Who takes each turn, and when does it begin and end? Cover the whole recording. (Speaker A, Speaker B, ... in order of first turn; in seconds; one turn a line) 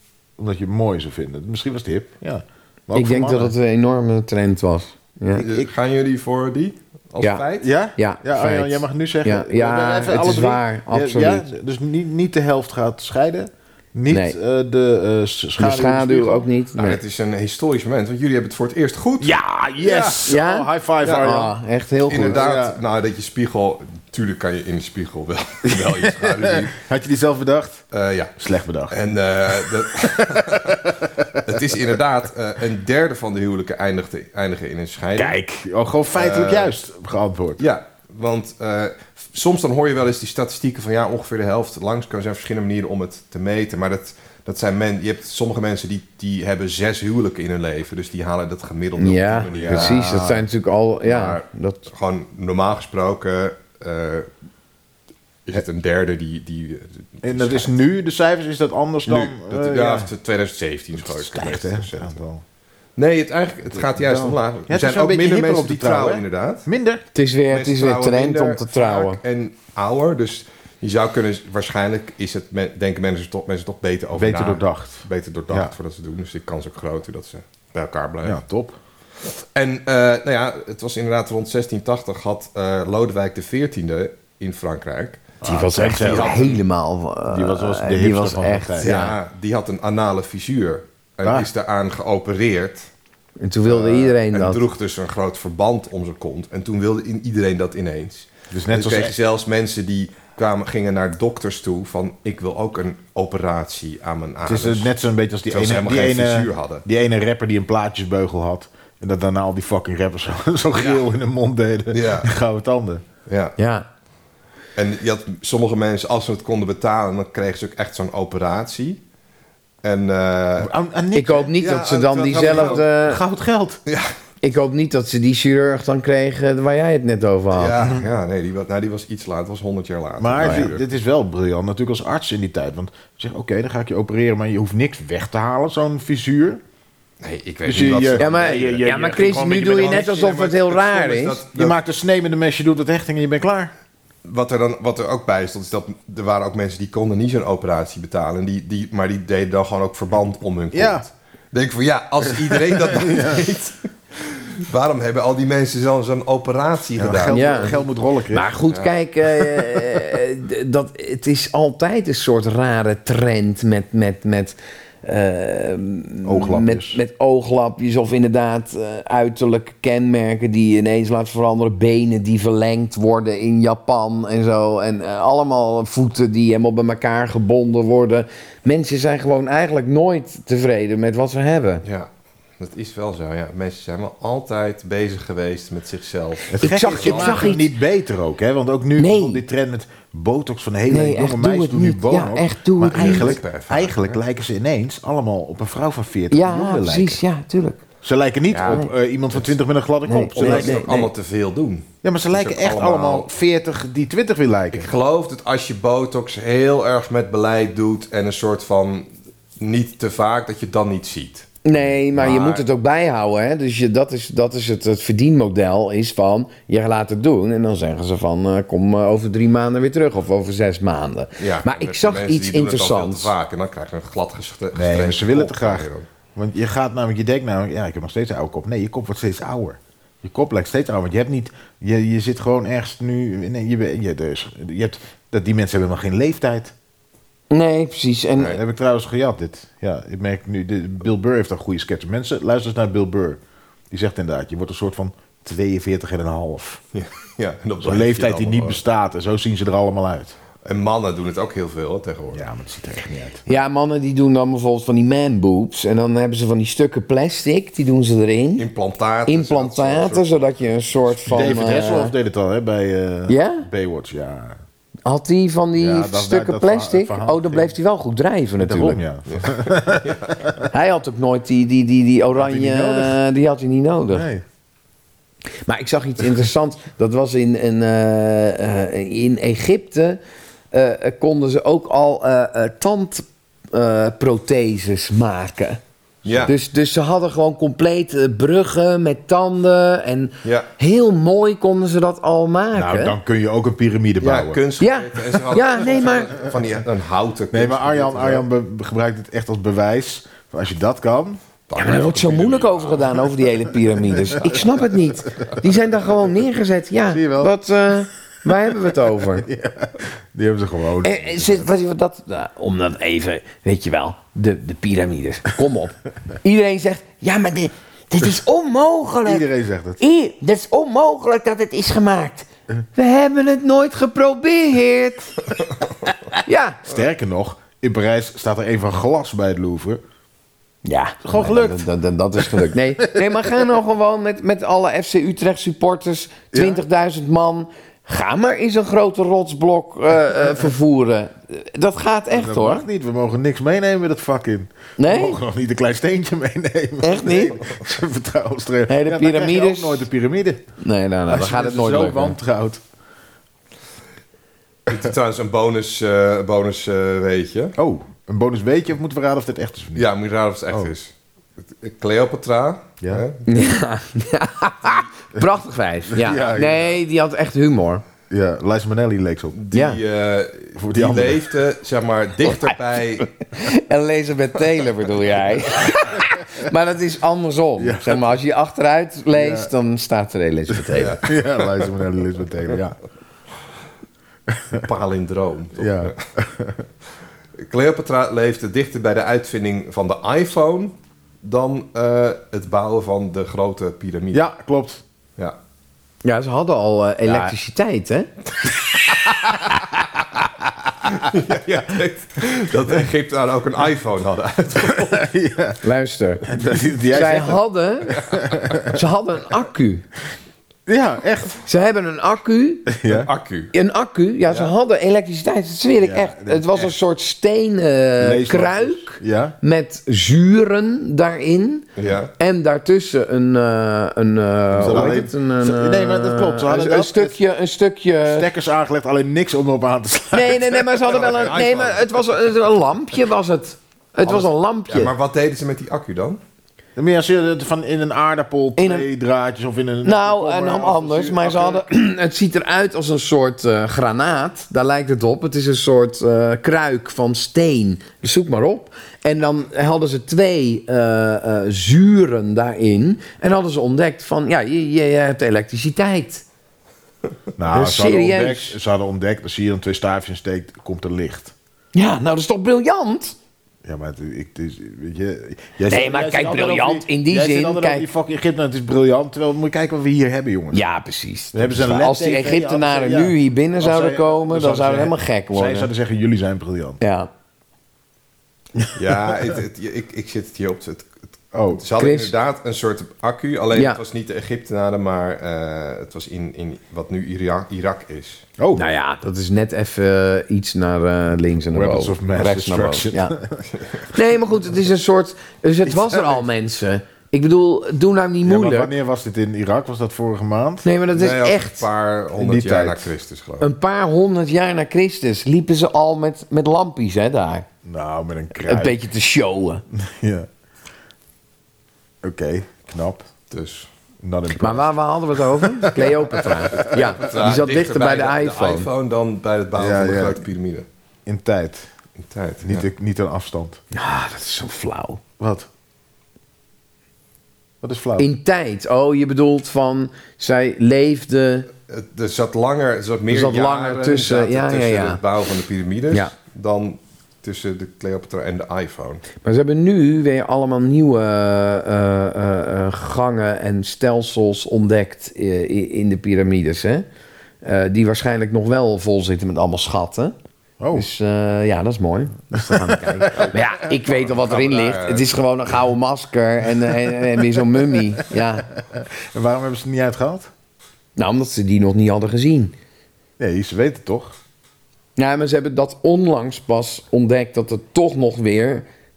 Speaker A: 0.4-3.5
Speaker B: 2.9-5.4
Speaker A: 5.3-5.7
Speaker C: 5.3-7.7
Speaker A: 7.6-16.5
Speaker B: 8.0-11.5
Speaker B: 14.1-14.4
Speaker B: 15.6-17.0
Speaker C: 16.8-20.2
Speaker A: 19.2-21.5
Speaker B: 20.3-22.4
Speaker C: 21.0-21.3
Speaker C: 22.1-26.7
Speaker A: 22.1-22.8
Speaker A: 25.7-27.8
Speaker C: 27.9-28.3
Speaker A: 28.4-31.8
Speaker C: 28.9-35.4
Speaker A: 35.2-37.6
Speaker C: 36.1-36.7
Speaker C: 37.6-50.0
Speaker B: 49.0-51.8
Speaker A: 49.5-50.5
Speaker C: 51.0-54.3
Speaker C: 55.5-57.7
Speaker A: 57.2-60.1
Speaker C: 59.1-62.2
Speaker A: 61.0-62.4
Speaker C: 63.0-66.7
Speaker A: 63.9-67.0
Speaker B: 67.1-69.2
Speaker C: 67.5-78.4
Speaker A: 74.1-75.7
Speaker A: 78.2-78.8
Speaker C: 79.2-85.3
Speaker A: 85.4-86.4
Speaker B: 85.4-89.2
Speaker C: 85.9-86.6
Speaker A: 87.3-88.9
Speaker C: 88.8-92.9
Speaker B: 93.4-94.6
Speaker C: 93.7-104.9
Speaker A: 98.5-99.2
Speaker A: 104.5-113.0
Speaker C: 105.5-106.8
Speaker C: 110.7-111.0
Speaker C: 111.9-112.3
Speaker C: 113.3-113.6
Speaker B: 113.6-113.9
Speaker C: 114.8-119.0
Speaker C: 119.8-120.7
Speaker A: 120.6-121.5
Speaker B: 121.1-123.2
Speaker C: 121.6-122.8
Speaker A: 122.3-123.8
Speaker C: 123.9-124.1
Speaker B: 124.4-127.8
Speaker C: 127.5-130.8
Speaker A: 130.2-136.6
Speaker B: 130.4-130.7
Speaker C: 137.2-138.9
Speaker A: 137.7-140.4
Speaker B: 138.2-141.4
Speaker C: 139.7-141.8
Speaker A: 141.5-143.7
Speaker C: 144.2-157.8
Speaker A: 150.7-151.1
Speaker A: 152.6-153.4
Speaker A: 157.0-158.5
Speaker B: 157.3-157.7
Speaker B: 158.3-181.8
Speaker A: 166.2-167.0
Speaker C: 181.8-187.5
Speaker A: 186.5-197.2
Speaker B: 186.6-187.7
Speaker B: 189.0-189.4
Speaker B: 190.9-193.4
Speaker C: 192.9-194.2
Speaker B: 196.3-197.8
Speaker A: 198.0-201.0
Speaker C: 198.5-199.5
Speaker B: 198.6-198.9
Speaker B: 200.1-201.1
Speaker C: 200.4-203.3
Speaker A: 202.0-204.9
Speaker C: 204.7-209.1
Speaker C: 209.6-212.7
Speaker B: 211.7-223.3
Speaker C: 221.4-226.1
Speaker A: 224.7-236.7
Speaker B: 237.5-238.6
Speaker A: 238.5-243.4
Speaker A: 243.9-246.8
Speaker C: 246.9-248.8
Speaker A: 247.8-250.3
Speaker C: 250.7-252.4
Speaker A: 252.3-253.4
Speaker B: 253.5-258.7
Speaker C: 258.6-260.5
Speaker B: 259.3-262.1
Speaker C: 261.1-261.6
Speaker A: 261.3-264.6
Speaker B: 263.3-263.7
Speaker B: 265.1-269.0
Speaker A: 265.8-267.7
Speaker A: 268.6-270.7
Speaker C: 269.3-270.5
Speaker B: 270.7-274.3
Speaker A: 272.4-273.2
Speaker A: 274.1-274.4
Speaker B: 275.6-280.2
Speaker B: 280.7-285.8
Speaker C: 286.2-286.5
Speaker B: 286.5-293.2
Speaker C: 290.4-290.7
Speaker A: 292.7-294.6
Speaker C: 294.2-298.5
Speaker B: 294.8-296.4
Speaker A: 297.5-301.4
Speaker C: 301.7-303.3
Speaker B: 301.7-309.5
Speaker A: 304.1-304.6
Speaker A: 307.1-307.5
Speaker A: 309.4-311.7
Speaker B: 311.0-319.5
Speaker A: 319.2-320.0
Speaker B: 320.0-325.5
Speaker B: 326.4-326.8
Speaker A: 326.9-330.0
Speaker B: 330.9-342.9
Speaker A: 331.2-333.4
Speaker A: 336.5-336.8
Speaker A: 342.3-350.6
Speaker B: 345.0-345.4
Speaker B: 347.0-347.7
Speaker B: 348.9-350.1
Speaker B: 350.8-352.4
Speaker A: 351.3-352.8
Speaker C: 354.9-357.8
Speaker A: 357.8-360.1
Speaker C: 359.9-363.5
Speaker B: 363.5-368.0
Speaker A: 366.1-366.9
Speaker A: 368.3-369.6
Speaker C: 369.5-373.3
Speaker B: 369.7-370.0
Speaker A: 370.8-371.5
Speaker B: 372.5-372.8
Speaker B: 373.5-381.2
Speaker A: 377.8-378.3
Speaker A: 379.3-379.7
Speaker A: 380.7-383.0
Speaker C: 380.9-381.9
Speaker A: 384.5-384.8
Speaker C: 384.7-386.2
Speaker A: 385.8-386.8
Speaker C: 387.6-394.4
Speaker A: 394.3-395.0
Speaker B: 396.2-398.3
Speaker A: 397.2-397.6
Speaker C: 401.0-405.3
Speaker A: 404.9-405.8
Speaker B: 405.8-408.2
Speaker A: 406.5-409.0
Speaker B: 408.8-410.0
Speaker A: 410.9-411.6
Speaker B: 411.7-412.9
Speaker A: 412.9-413.3
Speaker C: 413.1-413.7
Speaker B: 413.7-421.9
Speaker A: 416.0-416.9
Speaker A: 418.2-419.6
Speaker C: 422.0-422.3
Speaker B: 422.4-428.5
Speaker A: 424.7-427.4
Speaker C: 424.9-425.2
Speaker A: 428.3-431.2
Speaker B: 430.3-435.1
Speaker C: 431.1-432.3
Speaker C: 434.2-436.4
Speaker A: 437.0-441.8
Speaker B: 438.8-439.1
Speaker B: 440.0-456.4
Speaker A: 457.6-461.5
Speaker B: 457.7-458.8
Speaker B: 461.9-463.4
Speaker A: 463.8-470.8
Speaker B: 465.9-468.1
Speaker B: 470.7-475.9
Speaker A: 471.5-477.0
Speaker B: 477.0-477.3
Speaker C: 478.9-481.1
Speaker A: 481.5-481.8
Speaker C: 481.8-488.4
Speaker B: 482.0-482.3
Speaker B: 483.7-484.0
Speaker A: 488.6-488.8
Speaker B: 488.8-493.4
Speaker A: 491.7-493.7
Speaker B: 494.1-498.9
Speaker A: 495.9-496.5
Speaker A: 498.4-500.9
Speaker B: 500.9-501.9
Speaker C: 501.1-503.7
Speaker A: 502.4-503.1
Speaker B: 503.6-507.7
Speaker A: 507.8-509.0
Speaker B: 508.6-509.8
Speaker A: 509.9-510.5
Speaker A: 512.2-513.3
Speaker C: 513.5-513.9
Speaker A: 514.2-517.1
Speaker B: 514.6-518.9
Speaker C: 516.7-520.9
Speaker A: 519.8-520.4
Speaker A: 521.3-521.9
Speaker C: 522.2-522.9
Speaker A: 522.6-523.8
Speaker B: 523.9-525.2
Speaker A: 525.4-525.7
Speaker A: 527.8-528.3
Speaker B: 528.2-531.7
Speaker C: 531.9-539.2
Speaker B: 533.3-535.2
Speaker B: 539.4-547.1
Speaker B: 547.6-550.4
Speaker A: 550.8-551.1
Speaker B: 550.9-558.7
Speaker A: 552.5-553.5
Speaker C: 553.8-555.3
Speaker A: 558.9-560.5
Speaker B: 561.2-562.7
Speaker A: 563.4-564.4
Speaker B: 565.2-568.9